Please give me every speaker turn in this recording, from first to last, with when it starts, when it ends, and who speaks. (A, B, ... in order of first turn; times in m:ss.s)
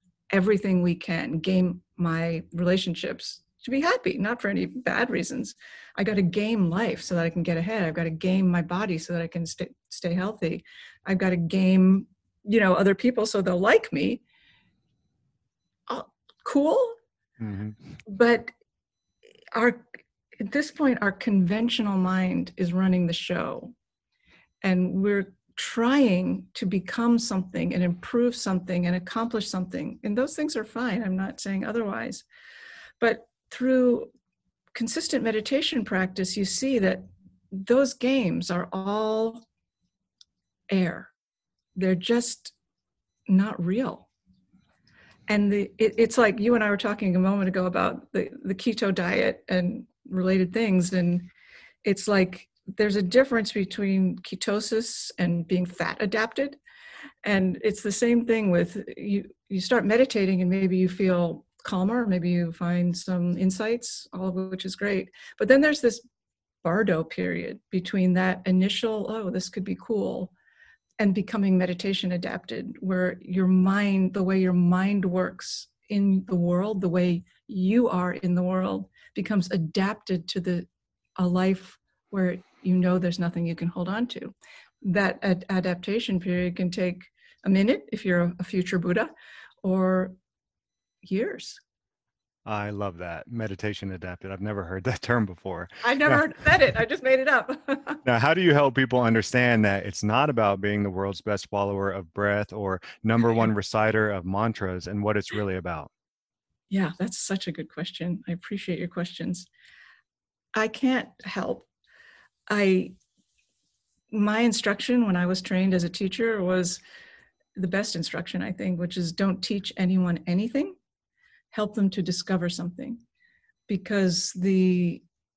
0:00.3-0:14.2 A
0:15.9-0:17.0 A
0:17.4-0:17.8 B
0:18.0-0:18.5 A
0:19.5-0:23.7 A
0:24.6-0:32.2 A
0:33.0-0:34.1 A
0:34.7-0:39.4 A
0:40.7-0:41.1 A
0:41.8-0:42.5 A
0:43.3-0:44.1 A
0:45.3-0:51.3 A
0:51.8-0:56.6 A
0:57.2-1:06.0 A
1:06.6-1:10.3 A
1:11.0-1:20.7 A
1:21.2-1:29.1 A
1:29.6-1:30.2 A
1:31.0-1:31.6 A
1:32.4-1:36.2 B
1:35.8-1:38.0 A
1:38.0-1:45.9 B
1:46.7-1:49.5 A
1:50.6-1:51.7 A
1:52.5-1:52.9 A
1:54.1-1:56.8 A
1:57.6-2:00.8 A
2:01.5-2:03.0 A
2:03.7-2:05.0 A